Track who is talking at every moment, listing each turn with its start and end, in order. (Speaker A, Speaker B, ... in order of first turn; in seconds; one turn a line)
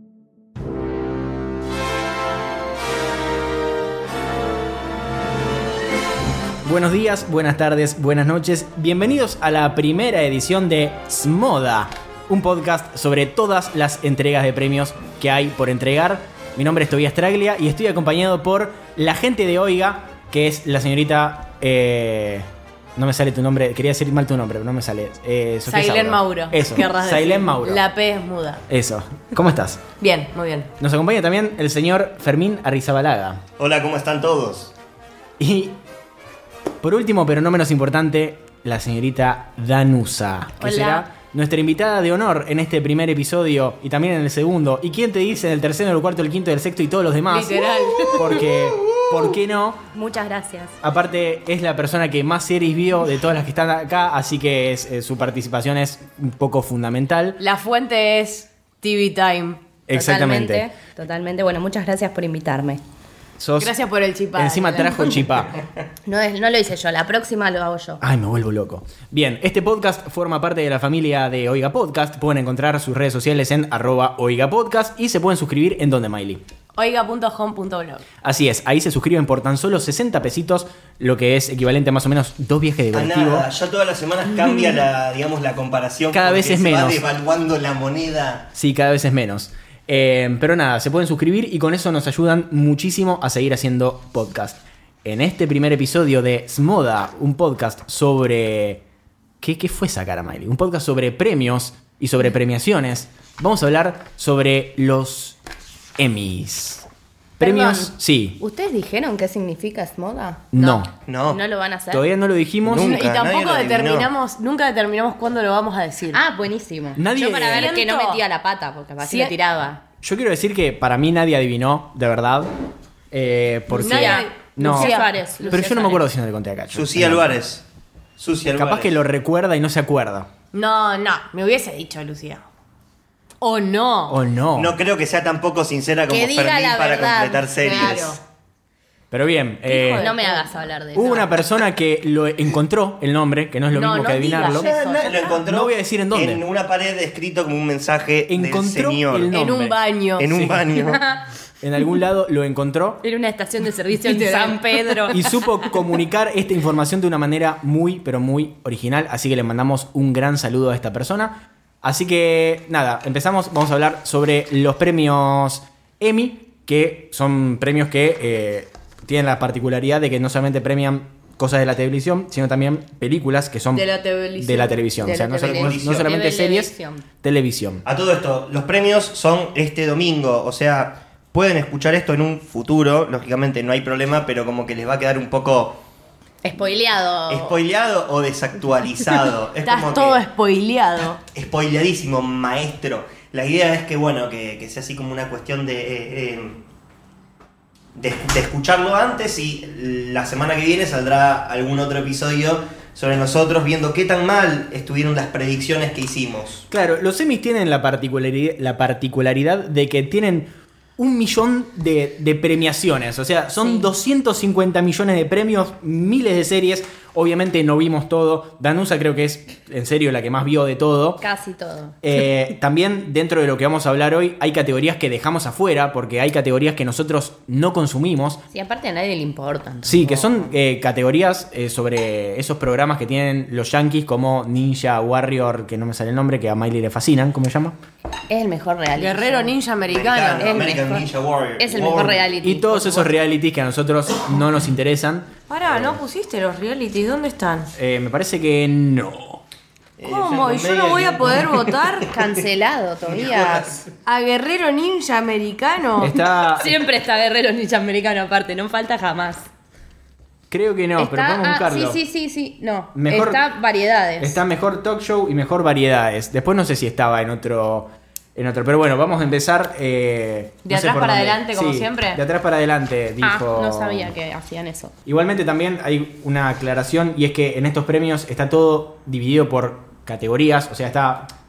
Speaker A: 6.6-27.8
Speaker B: 25.7-28.6
Speaker A: 28.7-29.8
Speaker B: 30.0-30.7
Speaker A: 30.8-33.4
Speaker C: 33.6-34.7
Speaker A: 35.4-35.8
Speaker A: 36.8-49.8
Speaker D: 40.6-41.1
Speaker B: 47.3-48.4
Speaker C: 48.8-49.3
Speaker D: 49.9-50.8
Speaker A: 50.8-57.4
Speaker B: 57.4-59.6
Speaker A: 59.9-60.6
Speaker D: 59.9-62.8
Speaker A: 63.4-63.7
Speaker B: 63.6-65.2
Speaker A: 64.3-65.5
Speaker D: 66.0-68.0
Speaker A: 68.0-76.4
Speaker B: 76.8-78.0
Speaker A: 78.2-83.5
Speaker C: 82.9-88.5
Speaker A: 86.1-87.0
Speaker A: 88.5-98.8
Speaker A: 99.4-105.4
Speaker A: 106.0-106.9
Speaker A: 107.4-108.4
Speaker D: 107.4-110.5
Speaker A: 110.5-110.9
Speaker B: 110.6-110.8
Speaker C: 111.1-111.4
Speaker D: 111.3-112.1
Speaker A: 111.9-113.0
Speaker C: 112.6-114.1
Speaker B: 112.7-116.2
Speaker D: 116.1-119.8
Speaker A: 117.0-117.8
Speaker B: 117.5-118.2
Speaker B: 119.0-119.3
Speaker A: 120.0-122.5
Speaker A: 123.1-127.4
Speaker B: 123.7-125.9
Speaker D: 123.8-126.0
Speaker C: 126.7-127.6
Speaker C: 128.2-128.9
Speaker A: 128.5-130.3
Speaker B: 130.5-132.5
Speaker B: 133.4-134.2
Speaker A: 134.1-134.8
Speaker C: 134.6-138.2
Speaker D: 136.1-138.2
Speaker B: 137.6-138.2
Speaker A: 139.1-140.2
Speaker B: 139.7-140.5
Speaker D: 140.0-141.3
Speaker A: 140.9-144.7
Speaker B: 143.8-145.3
Speaker D: 143.8-145.4
Speaker C: 144.5-149.3
Speaker A: 145.5-146.4
Speaker A: 148.3-149.8
Speaker B: 149.3-150.4
Speaker C: 150.2-151.0
Speaker A: 150.3-150.8
Speaker D: 150.9-151.2
Speaker A: 151.6-153.0
Speaker D: 153.0-155.3
Speaker B: 154.0-155.2
Speaker A: 155.1-177.8
Speaker B: 173.7-175.7
Speaker D: 175.4-177.1
Speaker C: 175.4-176.1
Speaker C: 177.8-185.8
Speaker D: 186.4-187.6
Speaker C: 187.3-190.2
Speaker B: 189.6-191.2
Speaker C: 191.3-196.6
Speaker C: 197.9-206.7
Speaker A: 206.7-221.2
Speaker D: 213.6-213.9
Speaker D: 221.2-222.0
Speaker A: 222.0-228.4
Speaker D: 228.5-230.2
Speaker A: 229.8-237.8
Speaker D: 238.3-239.5
Speaker B: 239.0-240.6
Speaker C: 239.9-242.3
Speaker D: 240.4-241.1
Speaker D: 241.6-243.2
Speaker A: 242.4-245.3
Speaker B: 245.5-247.7
Speaker A: 247.8-249.4
Speaker C: 250.0-251.8
Speaker B: 250.1-252.1
Speaker D: 252.1-253.8
Speaker C: 253.0-253.7
Speaker B: 254.1-256.1
Speaker A: 256.0-256.8
Speaker D: 256.4-259.5
Speaker A: 260.5-262.0
Speaker D: 261.0-264.4
Speaker A: 262.9-263.4
Speaker A: 264.2-274.1
Speaker B: 270.6-272.2
Speaker D: 273.2-274.9
Speaker A: 275.1-281.3